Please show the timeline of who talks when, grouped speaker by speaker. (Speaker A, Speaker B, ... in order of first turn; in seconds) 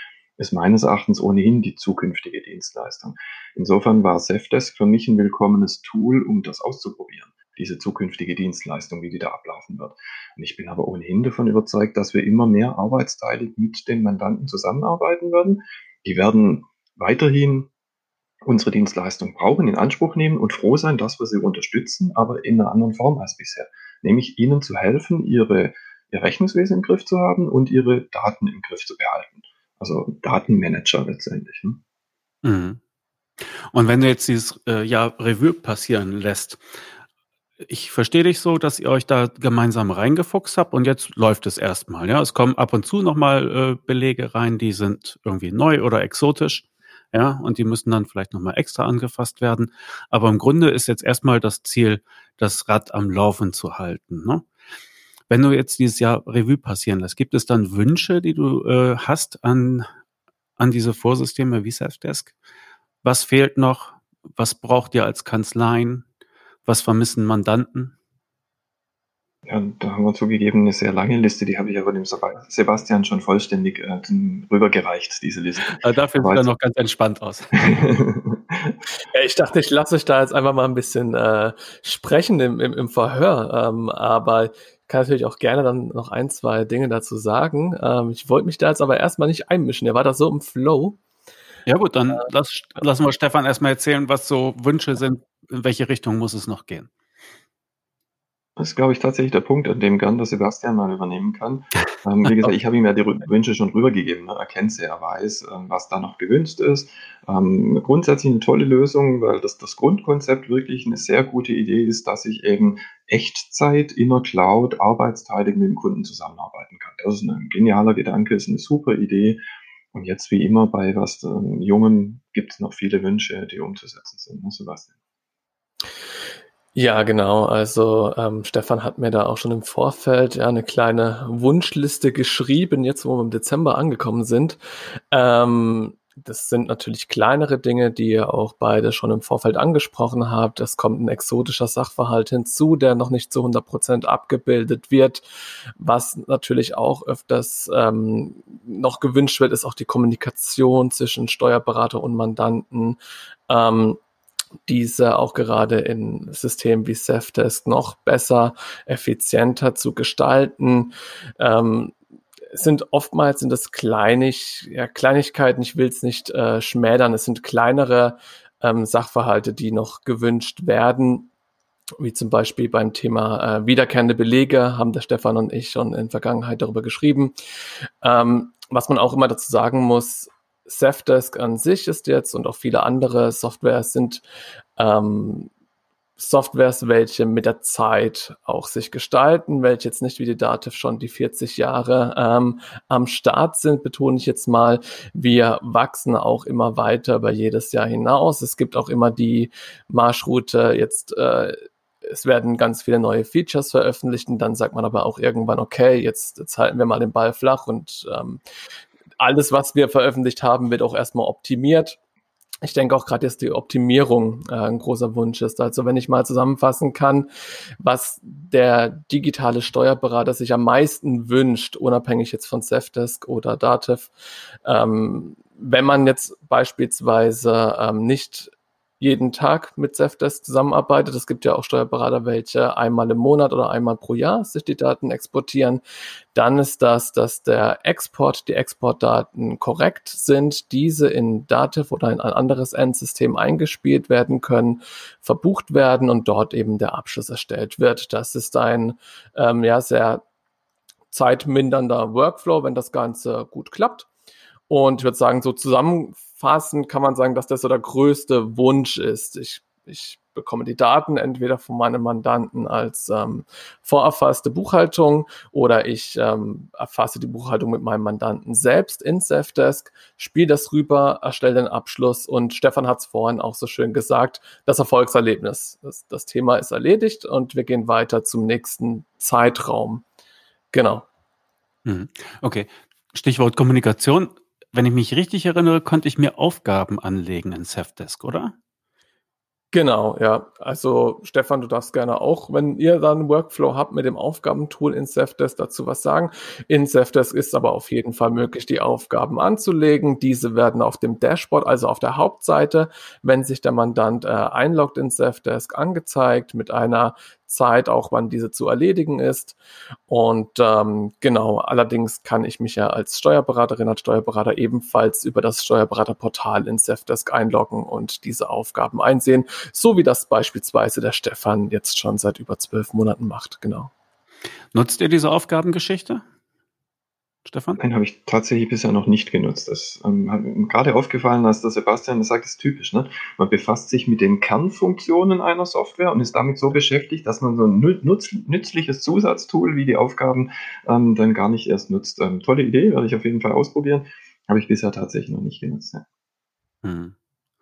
Speaker A: 0.4-17.7, 18.4-31.8, 69.5-76.5, 77.5-78.8, 98.6-119.4, 119.9-124.9, 327.8-346.0
Speaker B: 32.4-32.8, 33.4-36.6, 37.7-54.5, 55.3-59.9, 60.6-62.3, 63.0-66.1, 66.7-67.9, 75.7-77.6, 91.7-96.9, 281.9-288.5, 324.7-326.2, 327.4-327.8, 346.8-347.1
Speaker C: 79.1-91.0, 126.8-145.2, 145.8-153.0, 153.5-154.0, 154.7-161.9, 162.5-171.3, 172.0-177.3, 178.0-184.2, 184.8-185.5, 186.2-208.4, 209.2-212.0, 212.6-224.1, 224.7-235.8, 236.3-250.2, 251.1-254.1, 254.7-280.1, 280.7-281.1, 289.7-309.6, 310.1-323.9